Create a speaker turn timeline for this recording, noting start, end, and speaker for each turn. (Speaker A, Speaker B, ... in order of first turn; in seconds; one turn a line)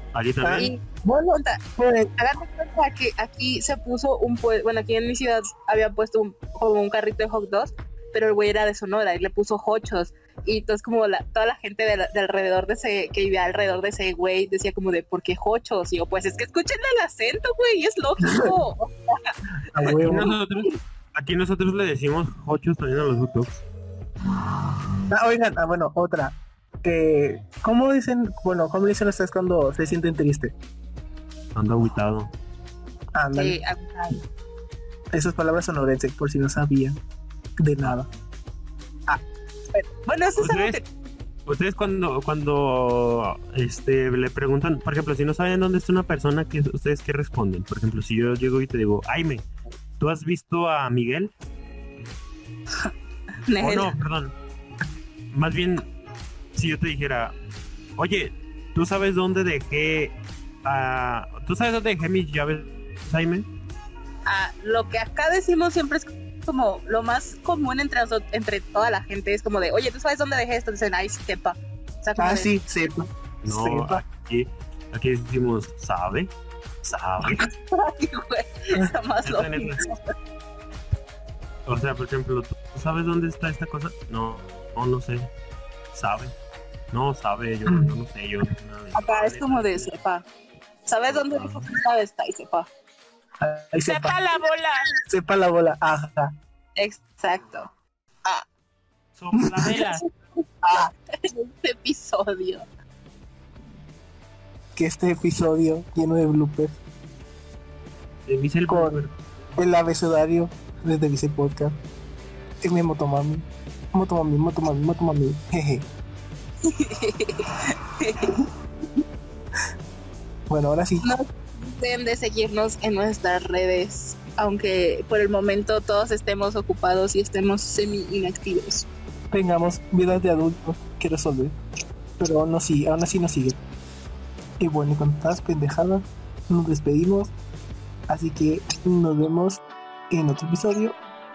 Speaker A: 0.1-0.7
Speaker B: 0.4-0.7
Speaker C: 0.5-1.6
Speaker B: 1.8-2.1
Speaker C: 2.2-19.3
Speaker B: 18.2-18.6
Speaker B: 19.7-20.3
Speaker A: 20.0-23.6
Speaker B: 25.1-30.5
Speaker A: 31.6-32.3
Speaker B: 33.1-33.6
Speaker C: 33.3-34.2
Speaker B: 35.1-37.0
Speaker B: 37.6-38.1
Speaker C: 39.7-40.9
Speaker A: 40.4-40.8
Speaker A: 41.5-49.5
Speaker A: 50.0-51.3
Speaker C: 53.5-53.9
Speaker A: 53.6-54.4
Speaker A: 55.3-55.9
Speaker A: 56.5-57.4
Speaker A: 58.0-63.5
Speaker C: 64.3-72.5
Speaker B: 72.2-74.0
Speaker A: 73.4-77.5
Speaker C: 77.2-80.0
Speaker A: 79.2-79.8
Speaker A: 81.7-85.3
Speaker A: 85.9-86.3
Speaker A: 86.9-90.0
Speaker B: 87.7-87.9
Speaker C: 88.9-90.2
Speaker C: 90.8-92.7
Speaker A: 91.1-91.7
Speaker B: 93.4-94.2
Speaker A: 93.8-94.8
Speaker B: 95.1-96.3
Speaker C: 96.8-97.7
Speaker A: 99.2-100.1
Speaker B: 99.4-99.7
Speaker C: 99.7-100.0
Speaker B: 100.6-100.9
Speaker C: 100.8-102.7
Speaker B: 104.8-106.8
Speaker A: 108.3-109.2
Speaker B: 108.7-109.0
Speaker B: 109.6-111.8
Speaker B: 112.6-115.9
Speaker C: 116.6-118.5
Speaker B: 120.5-121.1
Speaker C: 121.0-128.9
Speaker B: 129.3-131.6
Speaker B: 132.2-133.6
Speaker B: 134.6-137.3
Speaker B: 138.1-141.0